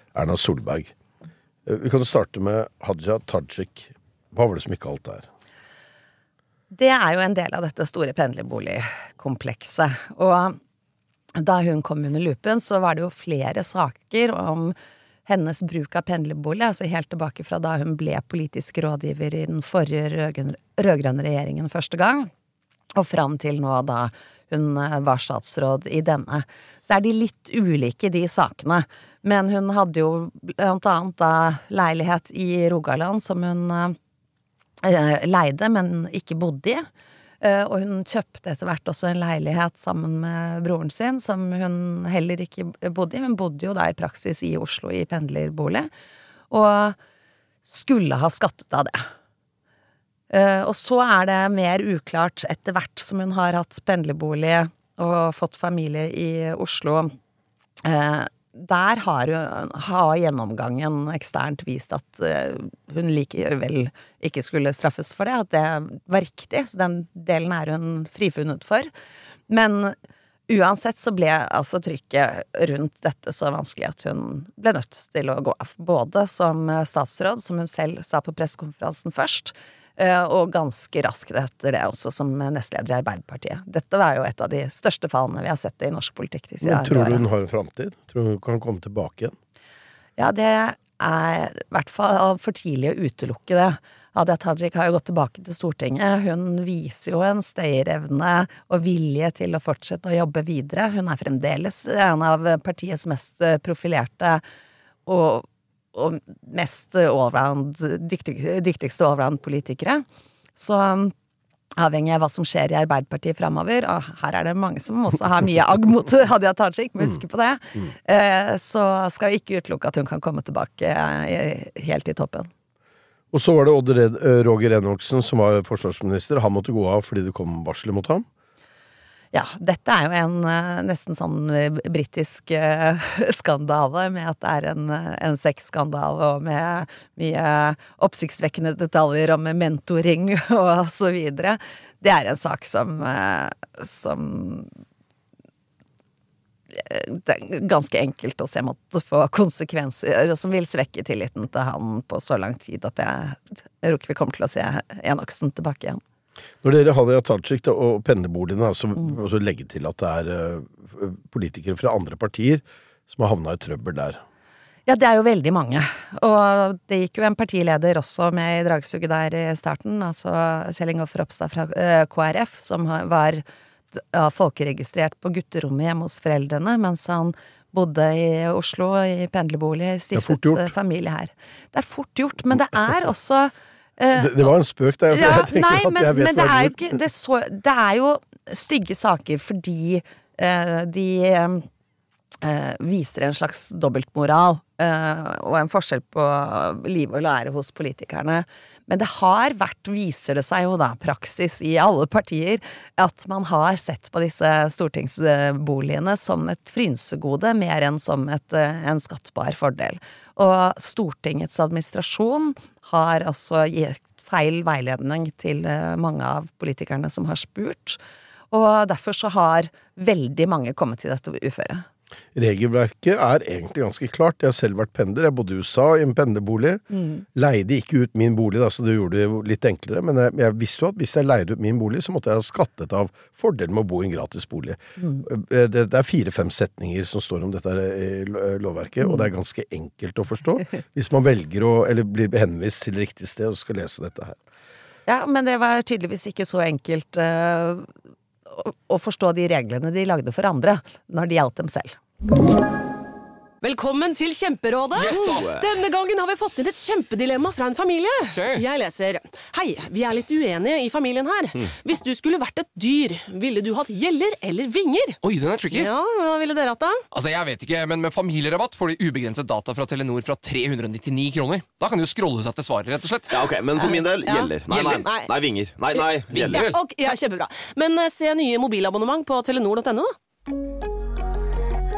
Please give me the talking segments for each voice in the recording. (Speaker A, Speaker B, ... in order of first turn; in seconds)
Speaker A: 0.1-0.9, 1.6-5.3, 86.6-89.3, 123.3-128.2, 156.6-164.2, 180.1-180.7, 184.1-186.9, 222.3-226.8, 227.3-244.4
Speaker B: 6.7-10.6, 11.3-14.7, 15.2-22.3, 22.9-34.0, 34.8-36.9, 37.4-45.9, 46.5-47.0, 47.6-49.1, 50.3-57.1, 57.8-68.9, 69.5-70.0, 70.5-87.2, 90.2-104.4, 105.0-110.0, 110.5-111.1, 111.8-122.5, 129.3-144.7, 146.7-156.0, 164.9-184.5, 185.1-191.7, 192.4-218.0, 218.5-221.8, 226.9-227.2, 235.0-235.2, 245.1-247.9, 248.5-252.0
Speaker C: 253.6-267.0, 273.8-275.3, 275.9-280.1
Speaker D: 255.0-255.6, 273.3-276.6
Speaker E: 255.1-255.4, 258.3-258.6, 265.2-265.9, 267.1-273.4, 276.4-276.8